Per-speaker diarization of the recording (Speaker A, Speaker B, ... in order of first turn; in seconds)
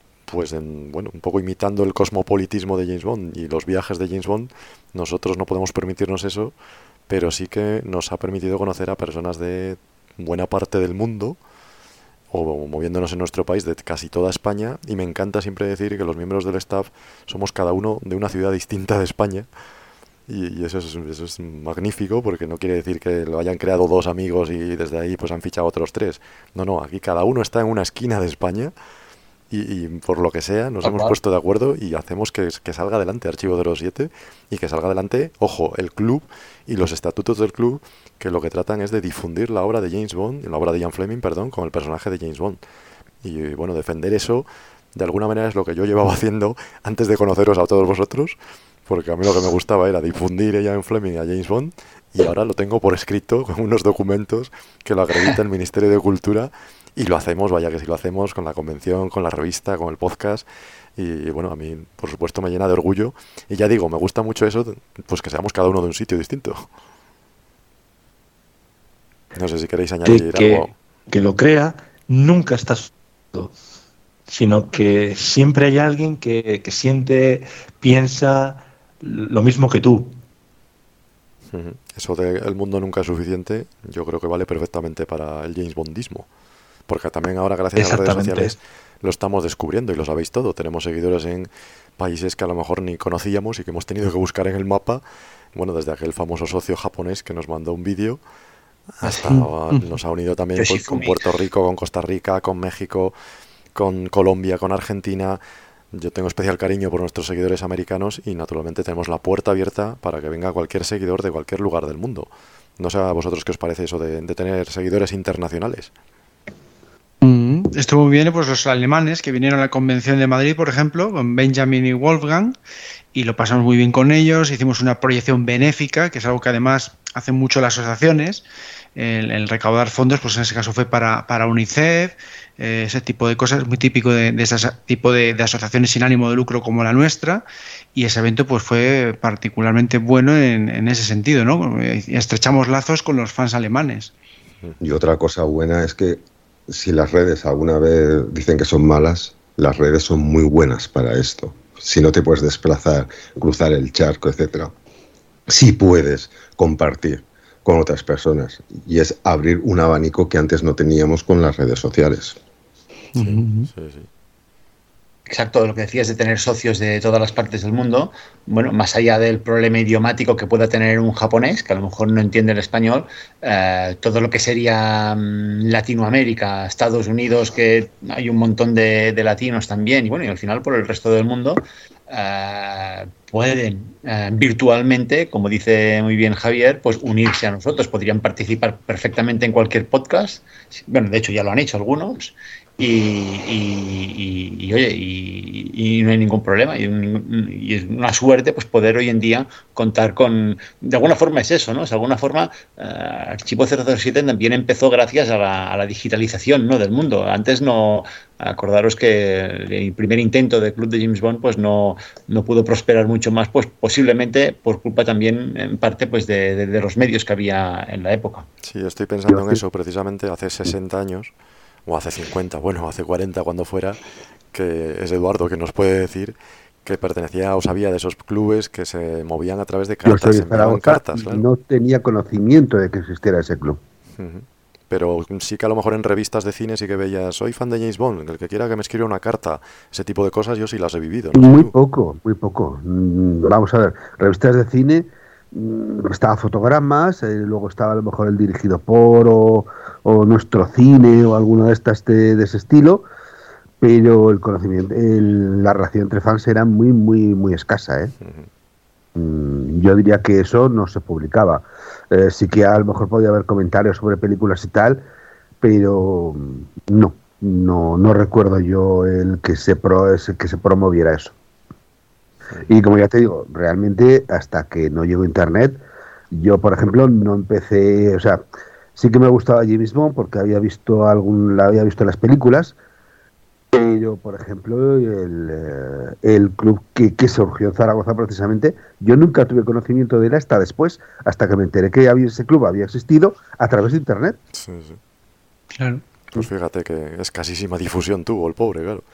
Speaker A: 0.3-6.5, 7.1-11.4, 12.3-19.5, 20.3-28.7, 29.5-42.6, 43.2-66.7, 69.3-70.7, 81.5-86.3, 86.9-98.2, 99.0-103.2, 103.8-105.4, 105.9-115.9, 163.2-164.1, 218.6-221.3, 221.9-224.0, 224.5-231.4, 234.2-241.8, 258.2-258.5, 294.5-295.0, 296.4-299.1
Speaker B: 30.8-31.2, 99.1-99.4, 100.6-101.2, 165.3-218.5
Speaker C: 70.0-73.5, 74.3-80.2, 87.8-88.6
Speaker D: 117.2-122.6, 123.1-128.4, 129.0-144.1, 163.2-163.7, 295.8-296.0
Speaker E: 144.8-154.7, 155.5-162.4
Speaker F: 219.3-219.6, 230.1-233.8, 241.3-253.1, 253.8-258.1, 259.2-265.1, 265.6-271.4, 272.7-275.8, 276.3-278.4, 279.0-282.8, 283.7-294.4